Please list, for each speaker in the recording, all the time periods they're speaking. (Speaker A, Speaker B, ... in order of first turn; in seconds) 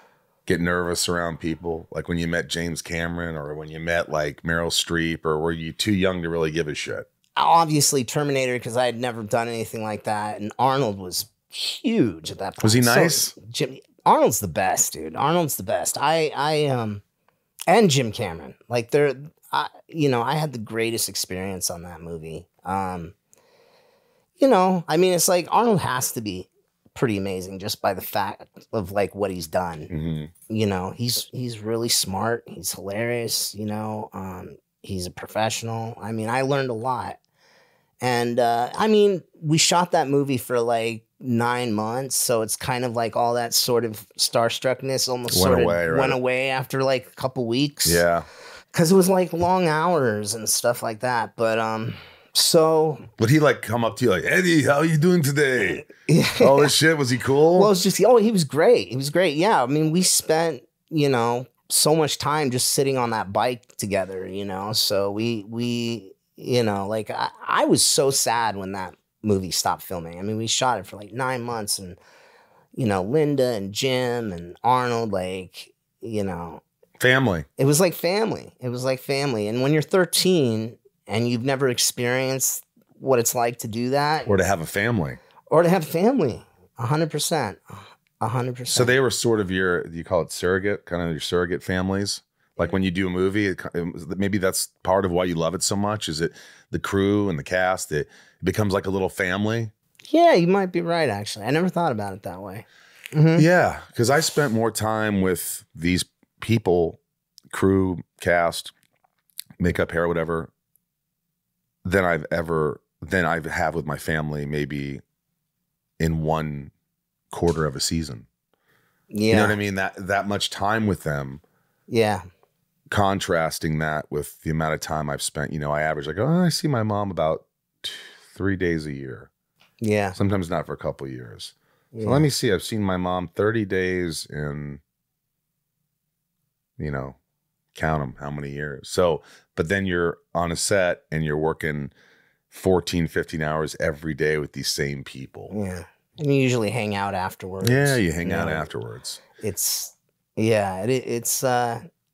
Speaker A: 0.5-7.1, 12.6-13.3, 29.9-30.3, 45.3-46.2, 47.8-48.3, 53.2-55.9, 56.4-57.7, 77.0-77.5, 84.2-85.2, 88.7-99.7, 103.4-108.7, 109.6-110.5, 111.8-115.0, 116.0-116.7, 117.3-118.3, 119.3-121.4, 122.9-129.3, 130.1-134.8, 136.8-137.2, 137.7-141.9, 142.5-145.5, 147.6-149.2
Speaker B: 7.3-17.0, 17.7-23.1, 24.4-29.9, 30.5-37.2, 38.0-48.0, 48.7-53.1, 55.6-56.7, 57.5-72.0, 72.8-76.6, 77.6-84.3, 85.5-89.0, 100.1-103.5, 119.1-119.6, 121.9-122.2, 129.8-130.2, 131.9-132.3, 145.5-148.7, 149.4-151.8